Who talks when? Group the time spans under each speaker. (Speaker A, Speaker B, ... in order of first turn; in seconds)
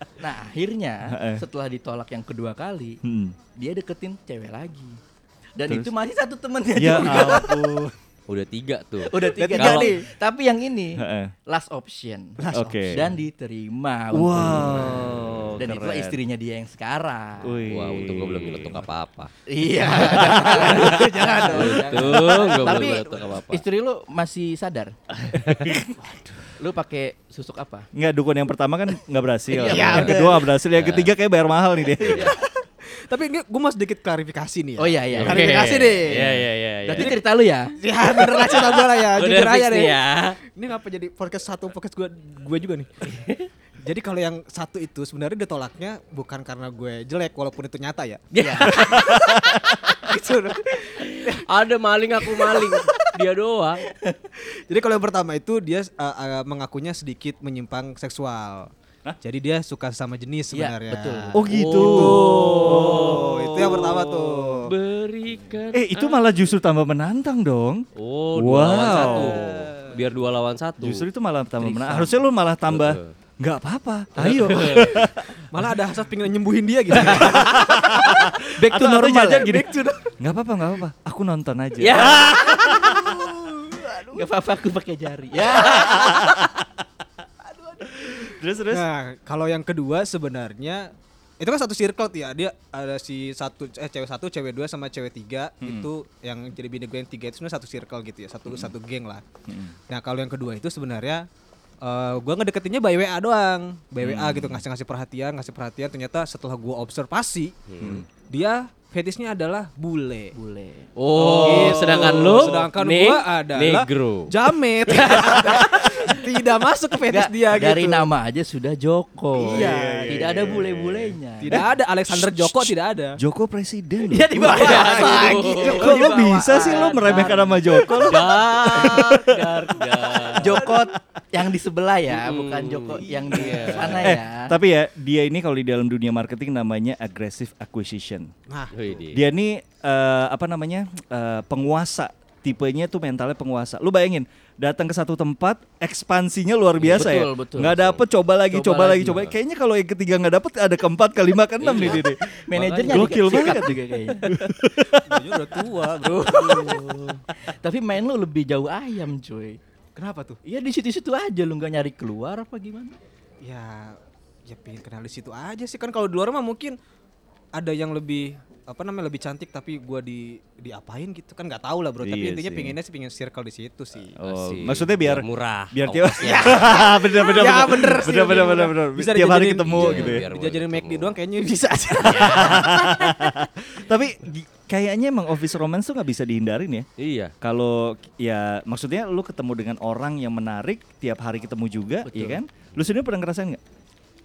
Speaker A: 0.2-3.0, 3.5-5.0, 5.5-7.7, 9.1-17.6, 19.5-24.9, 26.6-27.9, 29.5-30.2, 32.0-32.4, 34.8-36.2, 37.0-38.6, 43.0-43.5, 48.4-49.7, 50.7-51.3, 52.5-53.1, 60.5-61.4, 71.6-72.2, 78.5-79.7, 81.8-86.4, 110.3-110.9, 115.5-116.1, 117.1-121.7, 124.0-129.0, 130.3-134.6, 146.8-147.8, 148.5-149.3, 152.2-154.3, 156.2-156.8, 157.3-159.6, 160.4-162.9, 192.1-192.4
Speaker B: 1.1-1.4, 3.0-3.4, 6.8-7.9, 11.0-11.3, 12.5-13.1, 14.1-16.2, 17.4-18.9, 25.6-26.3, 27.9-32.4, 48.6-49.8, 61.3-64.5, 65.7-69.9, 70.8-75.4, 77.1-84.3, 85.6-86.5, 88.0-88.8, 95.6-95.9, 98.5-98.8, 99.5-99.7, 104.0-104.6, 107.8-108.0, 111.4-112.6, 119.5-130.8, 134.0-138.3, 139.1-152.2, 152.8-155.2, 172.0-172.8, 174.2-180.2, 182.1-186.9, 187.4-193.6
Speaker C: 8.3-9.9, 17.7-19.3, 21.4-23.6, 25.3-25.7, 29.8-30.2, 30.7-31.1, 35.1-37.1, 38.4-40.4, 51.4-53.8, 61.4-63.3, 64.7-66.2, 68.0-71.0, 72.7-73.1, 74.2-75.0, 81.8-82.2, 107.7-108.0, 111.0-114.3, 124.4-125.9, 126.5-130.6, 132.1-134.1, 138.7-139.2, 146.8-147.1, 147.6-148.0, 151.6-153.6, 156.2-157.2, 174.2-176.8, 179.6-181.2, 182.0-182.9, 187.0-187.3
Speaker D: 9.2-10.0, 12.4-13.0, 20.0-22.5, 29.6-30.4, 32.8-37.2, 37.8-42.9, 43.8-49.3, 49.9-51.4, 54.7-58.7, 59.2-64.7, 68.9-69.3, 75.3-77.7, 88.7-99.2, 99.9-101.3, 101.8-107.5, 108.1-110.3, 111.1-118.1, 119.3-120.5, 121.4-123.2, 124.4-126.8, 133.5-133.8, 138.5-139.0, 155.0-156.8, 159.9-160.4, 163.4-166.8, 167.5-174.1, 176.2-183.2